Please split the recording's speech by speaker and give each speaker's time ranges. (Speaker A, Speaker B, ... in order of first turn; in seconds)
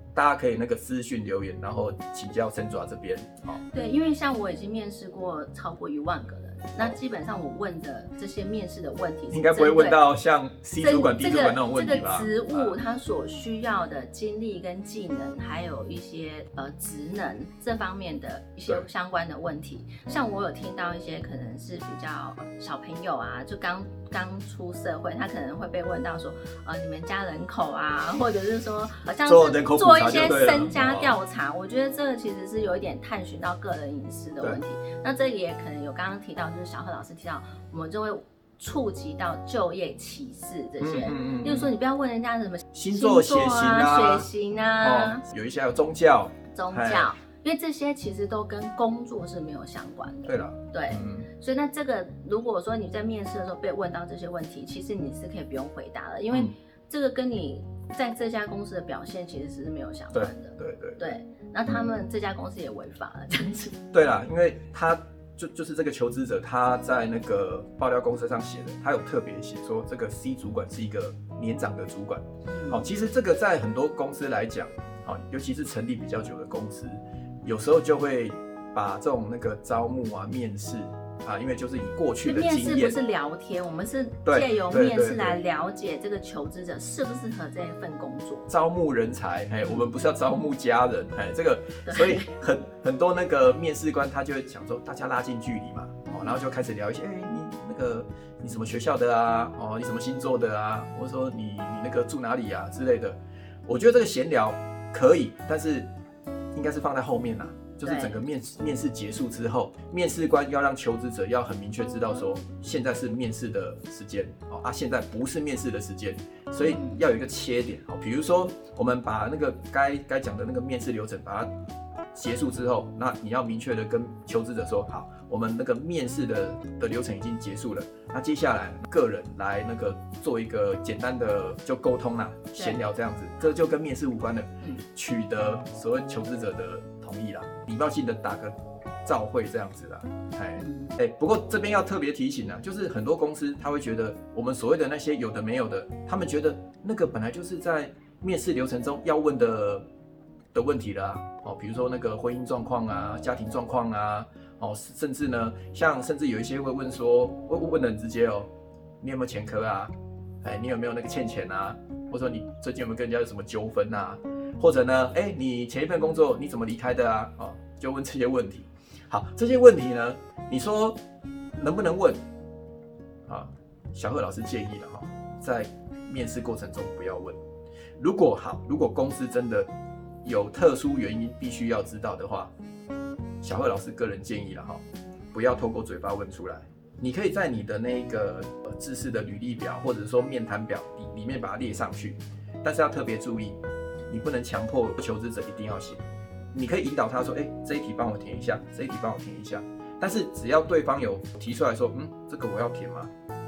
Speaker A: 0.1-3.6, 9.3-12.8, 29.2-31.1, 40.8-41.7, 42.7-44.3, 44.8-47.1, 50.2-51.3, 60.1-61.0, 63.9-83.0, 84.2-85.4, 88.5-105.9, 106.5-121.5, 122.1-138.5, 139.0-149.8, 150.5-158.5, 159.0-171.0, 171.6-172.2, 173.3-177.4, 178.0-179.7, 180.2-182.5, 183.4-184.8, 185.3-193.6, 194.1-196.0, 196.5-203.1
Speaker B: 3.7-10.0, 10.8-45.2, 46.5-63.7, 72.5-72.9, 82.2-88.5, 91.8-92.3, 96.0-96.3, 107.8-108.1, 116.6-117.0, 140.6-140.9